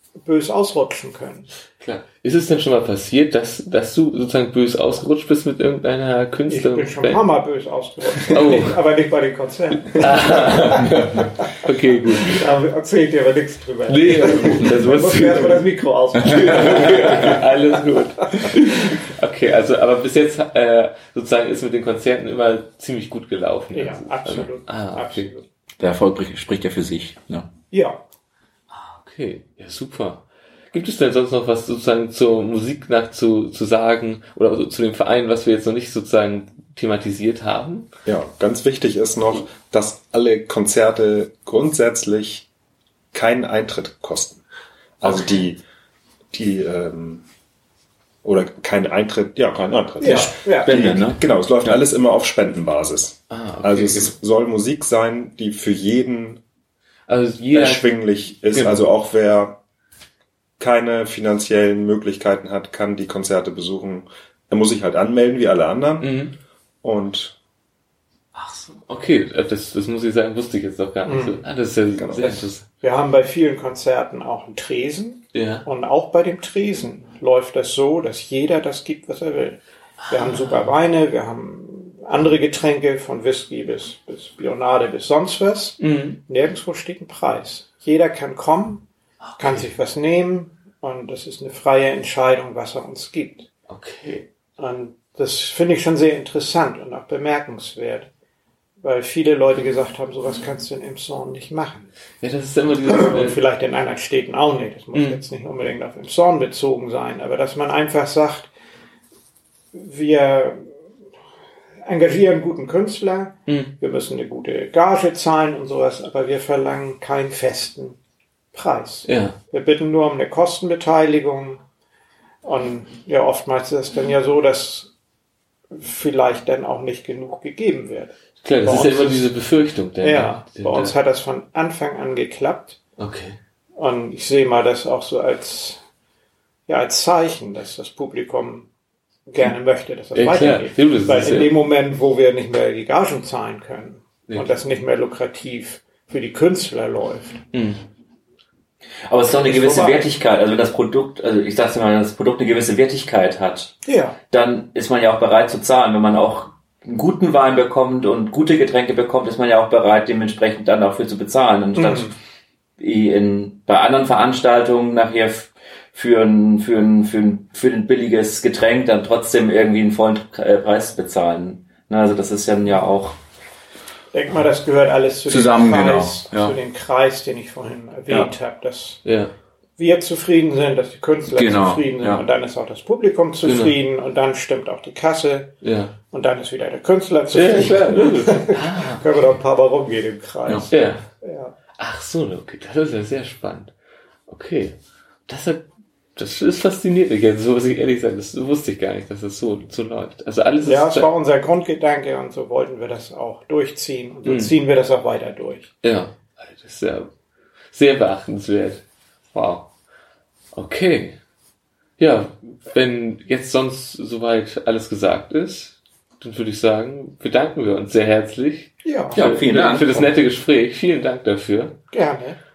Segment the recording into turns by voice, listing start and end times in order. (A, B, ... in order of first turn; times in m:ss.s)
0:00.2-0:01.5 A
0:01.8-0:07.2 B
0:06.5-0:11.4 A
0:08.3-0:08.8 B
0:10.0-0:12.4 B
0:12.2-0:18.5 A
0:13.9-0:15.7 B
0:16.2-0:25.3 B
0:16.3-0:16.9 C
0:23.7-0:25.4 A
0:25.8-0:27.5 C
0:27.7-0:28.0 A
0:28.7-0:37.9 B
0:38.1-0:42.5 D
0:43.1-0:44.4 D
0:45.0-0:45.6 D
0:45.1-0:45.4 B
0:46.3-0:47.2 D
0:48.2-0:56.4 D
0:50.0-0:50.7 A
0:50.6-0:51.7 C
0:53.3-0:54.1 B
0:57.1-0:58.0 B
0:57.5-0:59.6 D
0:58.5-0:58.8 B
1:00.6-1:06.1 D
1:06.0-1:06.4 B
1:06.8-1:07.4 D
1:08.4-1:12.6 B
1:11.0-1:11.4 A
1:12.0-1:12.5 D
1:12.8-1:28.9 A
1:15.3-1:15.7 B
1:20.1-1:20.7 B
1:25.8-1:26.2 B
1:29.4-1:29.6 B
1:29.4-1:33.5 A
1:33.7-1:34.3 B
1:34.6-1:38.1 A
1:38.8-1:41.9 A
1:42.2-1:43.4 B
1:42.8-1:48.5 A
1:44.9-1:45.2 B
1:49.7-1:50.7 A
1:51.8-1:58.0 A
1:53.5-1:53.7 B
1:58.5-2:01.6 A
1:59.1-1:59.4 B
2:02.4-2:04.9 A
2:05.7-2:09.3 A
2:08.4-2:10.9 B
2:10.0-2:12.8 A
2:13.0-2:13.4 B
2:13.8-2:15.8 A
2:16.7-2:18.7 A
2:19.3-2:27.4 A
2:20.1-2:21.5 B
2:24.3-2:24.5 B
2:27.5-2:27.8 B
2:29.1-2:33.7 C
2:29.5-2:30.1 A
2:33.9-2:34.2 A
2:34.3-2:42.1 C
2:41.7-2:42.1 A
2:42.8-2:53.2 C
2:54.1-2:59.0 A
2:55.3-2:56.6 C
2:59.0-2:59.3 B
2:59.8-3:05.6 A
3:01.3-3:02.2 C
3:03.4-3:03.8 B
3:05.6-3:05.9 B
3:06.1-3:11.5 A
3:07.3-3:09.3 B
3:10.7-3:11.1 B
3:11.8-3:13.7 B
3:14.3-3:14.8 B
3:15.3-3:15.6 B
3:16.2-3:21.1 B
3:20.6-3:25.7 A
3:24.2-3:24.5 B
3:25.8-3:27.1 B
3:27.7-3:29.7 B
3:30.5-3:31.2 B
3:32.0-3:41.8 B
3:38.8-3:39.3 A
3:39.1-3:40.1 C
3:41.9-3:42.4 A